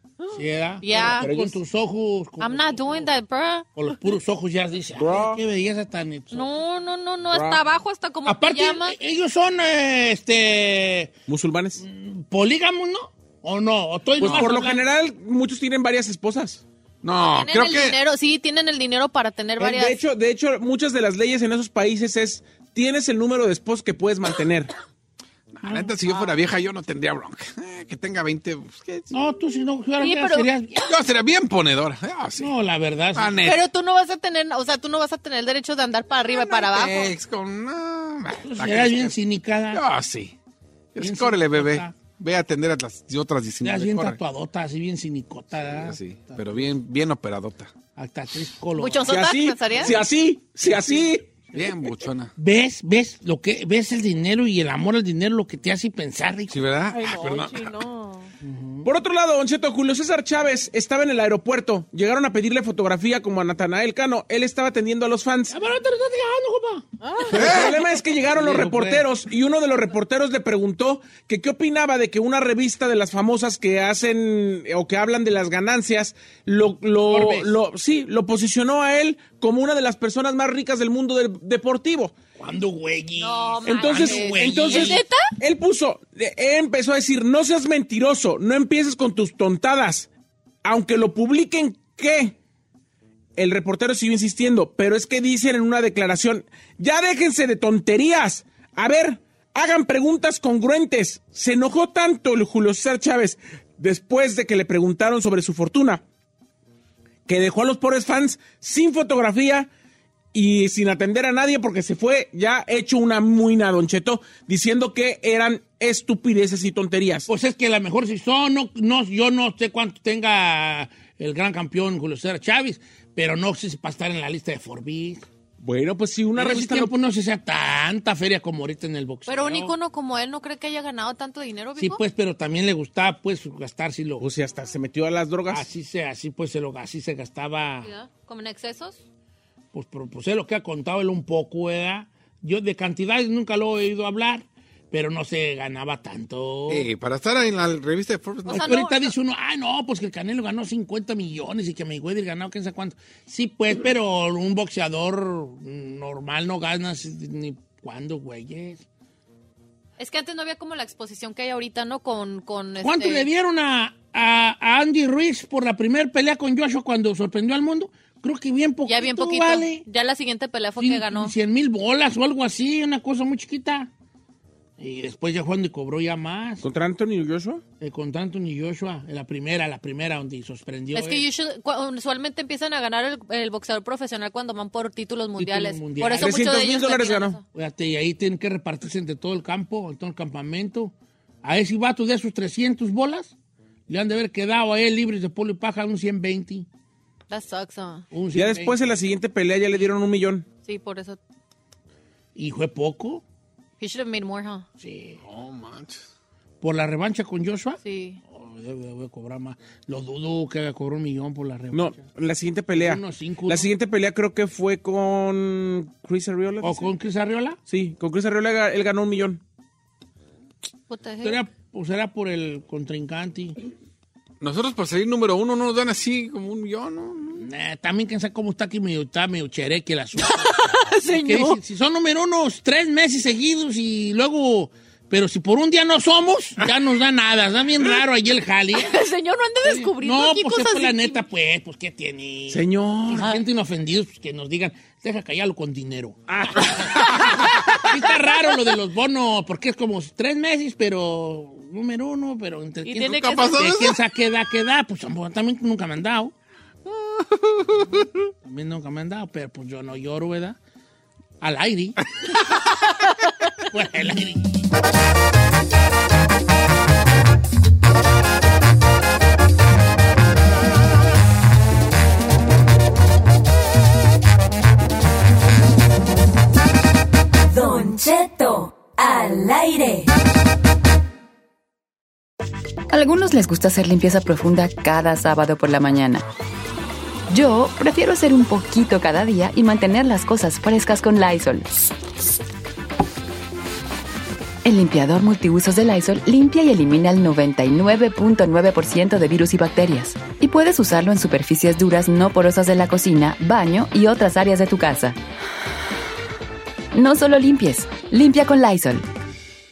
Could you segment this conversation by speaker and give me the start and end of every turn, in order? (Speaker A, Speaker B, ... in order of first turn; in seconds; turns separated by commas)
Speaker A: 0.3-3.1, Speaker B: 0.8-1.3, Speaker C: 0.9-1.6, Speaker B: 2.4-3.7, Speaker A: 3.8-6.5, Speaker C: 5.0-5.4, Speaker B: 6.3-8.9, Speaker C: 7.3-7.6, Speaker A: 8.2-11.1, Speaker C: 11.3-11.8, Speaker A: 11.8-14.8, Speaker C: 14.2-16.6, Speaker D: 14.2-14.5, Speaker D: 17.0-18.0, Speaker B: 17.3-20.0, Speaker C: 19.6-24.7, Speaker D: 25.5-29.1, Speaker A: 25.6-25.9, Speaker A: 29.1-30.9, Speaker B: 30.0-30.5, Speaker D: 30.9-32.5, Speaker A: 32.4-33.4, Speaker D: 33.1-33.7, Speaker B: 33.4-37.1, Speaker D: 36.3-39.1, Speaker A: 38.4-39.8, Speaker D: 39.7-40.4, Speaker D: 40.9-44.2, Speaker A: 41.0-41.9, Speaker A: 43.6-46.7, Speaker D: 45.7-47.7, Speaker A: 48.0-49.2, Speaker B: 48.8-50.0, Speaker C: 49.1-51.3, Speaker D: 51.5-52.3, Speaker A: 52.4-56.6, Speaker D: 56.5-57.8, Speaker E: 56.9-58.3, Speaker A: 58.4-58.9, Speaker C: 58.8-65.5, Speaker A: 65.5-67.7, Speaker E: 67.0-67.7, Speaker C: 67.3-82.1, Speaker D: 67.3-67.8, Speaker A: 68.3-69.0, Speaker A: 77.1-77.5, Speaker A: 82.4-85.0, Speaker B: 83.2-85.3, Speaker C: 83.7-90.1, Speaker C: 90.6-92.3, Speaker C: 93.3-106.0, Speaker C: 107.2-109.7, Speaker C: 110.3-117.3, Speaker A: 117.3-125.2, Speaker C: 125.6-126.9, Speaker A: 126.3-129.7, Speaker B: 129.3-132.0, Speaker A: 131.8-134.2, Speaker C: 134.2-135.7, Speaker A: 135.5-137.9, Speaker B: 137.8-139.0, Speaker A: 139.7-146.9, Speaker D: 146.7-148.7, Speaker B: 148.5-149.1, Speaker A: 148.5-158.8, Speaker B: 160.0-163.2, Speaker A: 162.8-169.8, Speaker B: 168.9-171.3, Speaker A: 170.8-173.9, Speaker A: 174.8-176.6, Speaker C: 176.6-177.6, Speaker A: 177.8-181.2, Speaker B: 180.9-187.4, Speaker A: 185.4-186.3, Speaker C: 186.2-187.4, Speaker A: 187.5-193.3, Speaker A: 193.9-196.7, Speaker B: 197.3-198.0, Speaker A: 198.1-198.8, Speaker C: 198.3-200.5, Speaker B: 200.7-201.2, Speaker A: 202.3-203.2, Speaker B: 203.8-204.7, Speaker A: 204.8-205.2, Speaker D: 205.2-206.0, Speaker A: 206.6-212.0, Speaker B: 207.8-208.2, Speaker C: 211.7-216.9, Speaker A: 212.7-213.7, Speaker A: 216.6-217.6, Speaker C: 217.7-219.4, Speaker B: 220.9-221.4, Speaker A: 221.2-223.6, Speaker D: 224.4-227.5, Speaker A: 227.3-238.9, Speaker B: 230.2-231.6, Speaker B: 238.7-241.2, Speaker A: 239.6-256.3, Speaker C: 242.5-243.3, Speaker B: 246.9-248.1, Speaker B: 252.8-253.6, Speaker D: 253.0-254.0, Speaker D: 256.9-258.3, Speaker A: 258.4-260.6, Speaker A: 261.4-262.0, Speaker A: 263.6-264.6, Speaker F: 277.5-280.1, Speaker G: 282.9-286.2, Speaker G: 287.3-291.9, Speaker G: 294.6-305.1, Speaker G: 306.9-309.1